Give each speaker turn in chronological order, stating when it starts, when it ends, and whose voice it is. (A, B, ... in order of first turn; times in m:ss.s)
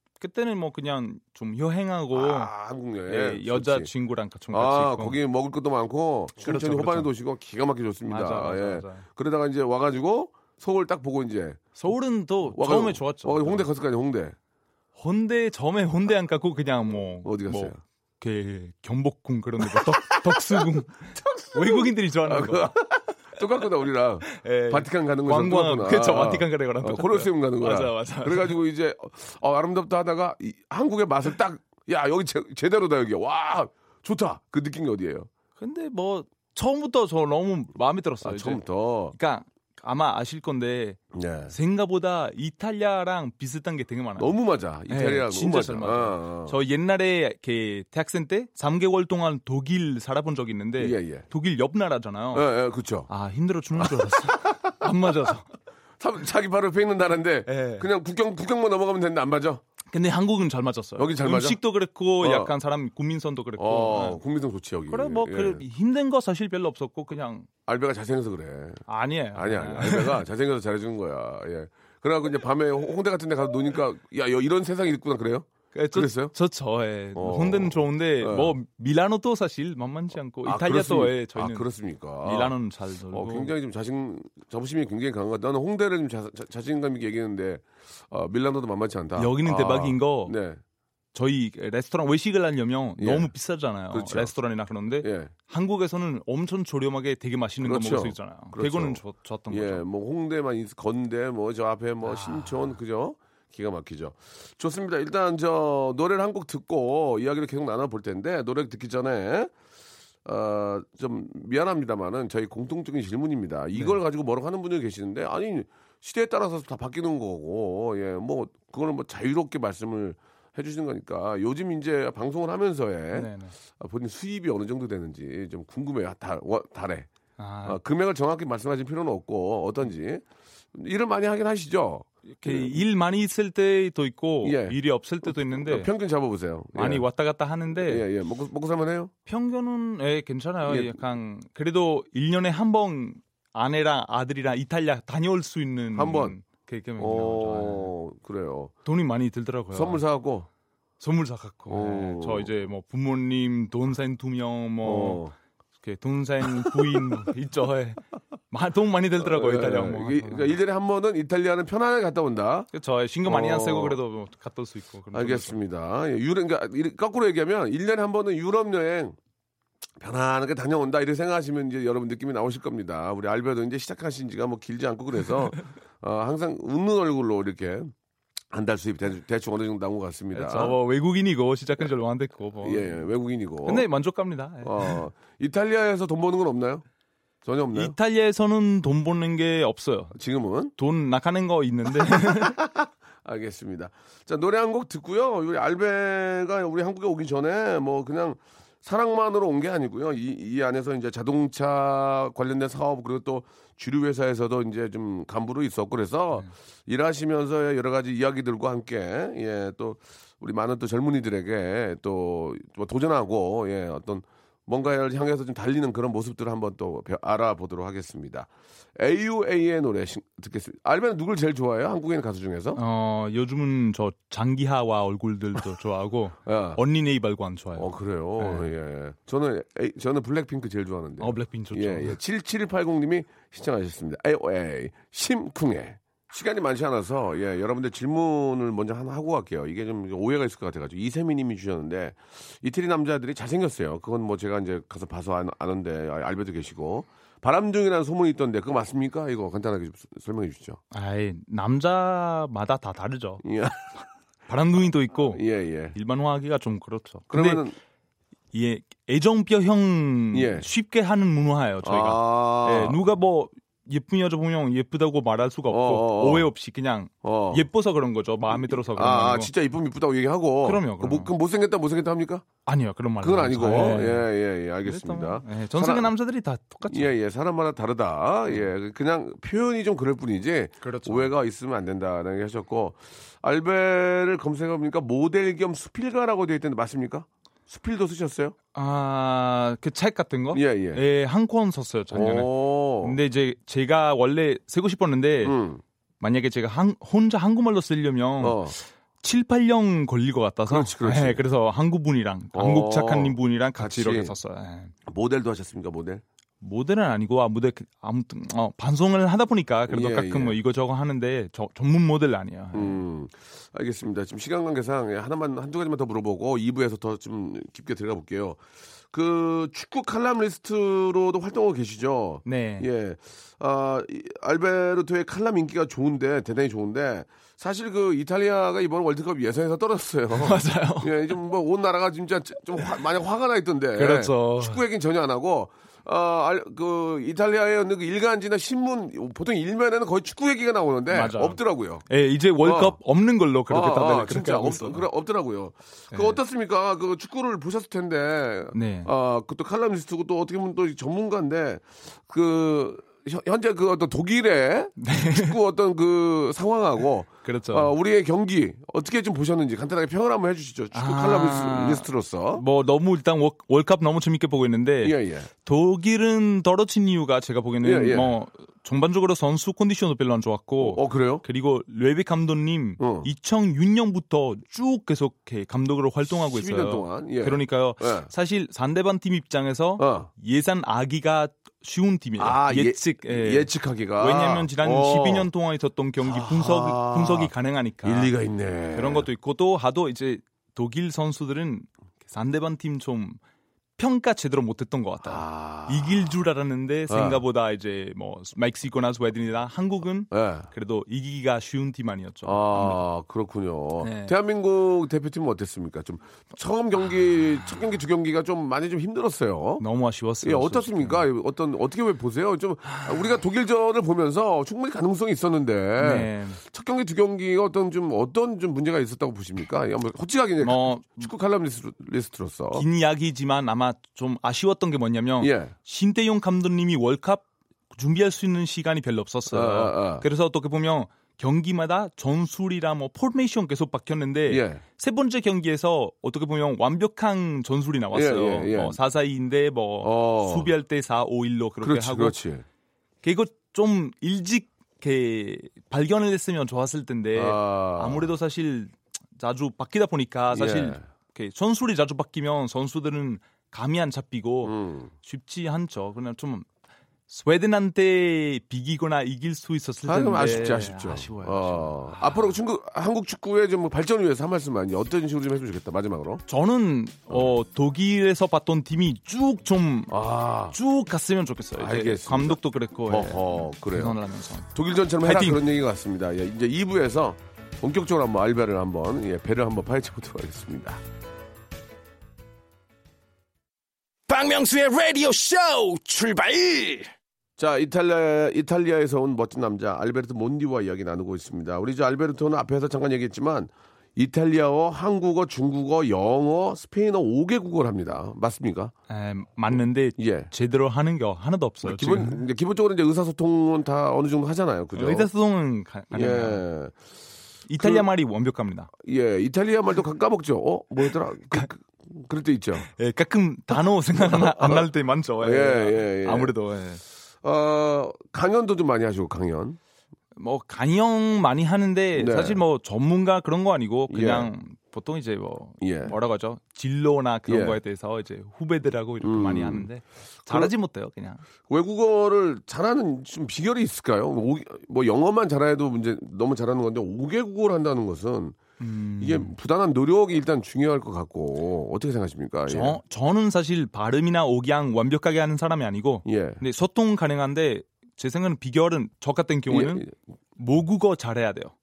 0:00.2-0:02.5 A
0:02.1-0:03.9 B
0:03.1-0:05.2 A
0:04.5-0:11.6 B
0:06.4-0:07.1 A
0:08.1-0:09.0 A
0:11.8-0:13.7 A
0:12.5-0:14.4 B
0:15.0-0:22.7 A
0:17.2-0:17.8 B
0:19.6-0:35.3 B
0:24.2-0:28.5 A
0:35.6-0:38.6 A
0:38.2-0:39.1 B
0:39.1-0:44.4 A
0:41.1-0:41.5 B
0:44.2-0:46.6 B
0:44.9-0:52.5 A
0:50.8-0:51.2 B
0:52.3-0:53.1 B
0:53.1-0:55.5 A
0:53.8-0:54.7 B
0:56.0-0:59.6 B
0:57.5-0:57.9 A
0:59.9-1:04.2 A
1:01.0-1:01.6 B
1:02.2-1:02.5 B
1:03.6-1:05.6 B
1:04.9-1:07.5 A
1:07.7-1:08.8 B
1:08.9-1:10.2 A
1:09.4-1:16.3 B
1:15.7-1:21.7 A
1:17.1-1:18.5 B
1:20.4-1:22.5 B
1:22.2-1:23.5 A
1:23.1-1:30.6 B
1:29.2-1:30.4 A
1:31.1-1:39.8 A
1:33.0-1:33.3 B
1:33.9-1:34.3 B
1:35.0-1:35.3 B
1:37.6-1:49.5 B
1:42.0-1:42.7 A
1:50.2-2:07.1 B
2:03.1-2:03.5 A
2:07.4-2:07.8 A
2:07.6-2:12.8 B
2:12.3-2:15.9 A
2:14.4-2:17.0 B
2:16.8-2:18.0 A
2:17.8-2:19.1 B
2:19.3-2:27.9 A
2:20.6-2:21.0 B
2:25.9-2:26.4 B
2:27.0-2:28.7 B
2:28.8-2:30.0 A
2:29.7-2:30.5 B
2:31.0-2:35.2 A
2:31.7-2:32.5 B
2:34.8-2:35.3 B
2:35.8-2:40.5 A
2:39.2-2:42.7 B
2:42.7-2:45.6 A
2:43.2-2:44.0 B
2:45.1-2:49.2 B
2:50.0-2:57.9 B
2:58.5-3:00.8 B
3:00.3-3:03.0 A
3:02.6-3:03.9 B
3:03.6-3:05.0 A
3:04.6-3:06.8 B
3:07.4-3:07.9 B
3:07.7-3:10.1 A
3:10.1-3:10.7 B
3:10.8-3:12.6 A
3:12.1-3:42.8 B
3:42.7-3:48.7 A
3:46.4-3:46.8 B
3:47.8-4:10.8 B
3:51.2-3:52.2 A
4:10.9-4:13.4 A
4:13.4-4:13.9 B
4:14.5-4:17.6 A
4:15.2-4:15.9 B
4:17.3-4:17.7 B
4:18.5-4:29.5 A
4:20.3-4:20.7 B
4:21.8-4:23.0 B
4:25.7-4:26.5 B
4:27.2-4:27.6 B
4:28.5-4:32.4 B
4:30.6-4:31.3 A
4:32.6-4:34.3 A
4:33.2-4:36.1 B
4:34.8-4:37.1 A
4:36.9-4:48.6 B
4:40.8-4:41.3 A
4:48.7-4:55.6 A
4:50.5-4:51.0 B
4:52.1-4:53.2 B
4:55.4-4:55.8 B
4:56.2-5:04.9 A
4:58.4-4:58.7 B
5:00.7-5:01.4 B
5:02.6-5:04.3 B
5:05.1-5:06.2 B
5:06.6-5:13.0 A
5:09.9-5:10.6 B
5:12.7-5:42.0 B
5:22.4-5:22.9 A
5:30.3-5:31.1 A
5:34.0-5:34.8 A
5:41.1-5:45.0 A
5:42.6-5:43.0 B
5:43.7-6:02.6 B
5:46.1-5:46.4 A
5:48.7-5:49.1 A
5:55.0-5:55.6 A
5:57.4-5:57.9 A
6:00.9-6:28.3 A
6:05.0-6:05.5 B
6:07.8-6:08.3 B
6:10.8-6:11.4 B
6:13.0-6:13.3 B
6:16.5-6:18.3 B
6:20.0-6:20.3 B
6:22.4-6:25.5 B
6:26.2-6:27.5 B
6:28.0-6:29.3 B
6:28.9-6:33.4 A
6:34.0-6:43.0 A
6:35.2-6:36.3 B
6:37.1-6:37.4 B
6:40.3-6:40.7 B
6:42.4-6:49.8 B
6:44.0-6:44.4 A
6:49.8-6:51.2 A
6:50.4-7:02.9 B
6:52.9-6:53.3 A
6:56.0-6:56.6 A
7:00.6-7:01.3 A
7:02.7-7:22.4 A
7:05.4-7:05.7 B
7:09.5-7:10.2 B
7:14.5-7:14.8 B
7:18.1-7:19.0 B
7:20.0-7:20.7 B
7:21.8-7:22.6 B
7:23.2-7:36.7 A
7:27.4-7:28.2 B
7:30.5-7:31.0 B
7:34.6-7:35.1 B
7:37.3-7:42.6 A
7:40.1-7:46.4 B
7:46.5-7:50.1 A
7:50.1-7:50.8 B
7:50.7-7:54.7 A
7:51.8-7:54.2 B
7:54.7-8:01.0 B
7:55.2-7:55.6 A
8:04.3-8:07.1 C
8:07.6-8:18.9 B
8:19.1-8:22.4 A
8:20.2-8:20.5 B
8:21.8-8:25.3 B
8:25.0-8:26.6 A
8:26.1-8:26.9 B
8:27.7-8:28.9 A
8:27.8-8:28.1 B
8:29.0-8:32.9 B
8:32.8-8:37.0 A
8:34.2-8:34.9 B
8:35.4-8:36.5 B
8:37.4-8:39.8 B
8:40.4-8:51.4 A
8:42.1-8:42.6 B
8:44.1-8:44.5 B
8:45.8-8:46.1 B
8:47.5-8:47.8 B
8:49.2-8:49.9 B
8:50.5-8:50.7 B
8:51.7-8:58.6 B
8:58.8-8:59.5 A
8:59.2-9:03.0 B
9:02.7-9:10.0 A
9:06.2-9:06.6 B
9:09.7-9:10.1 B
9:10.6-9:11.7 A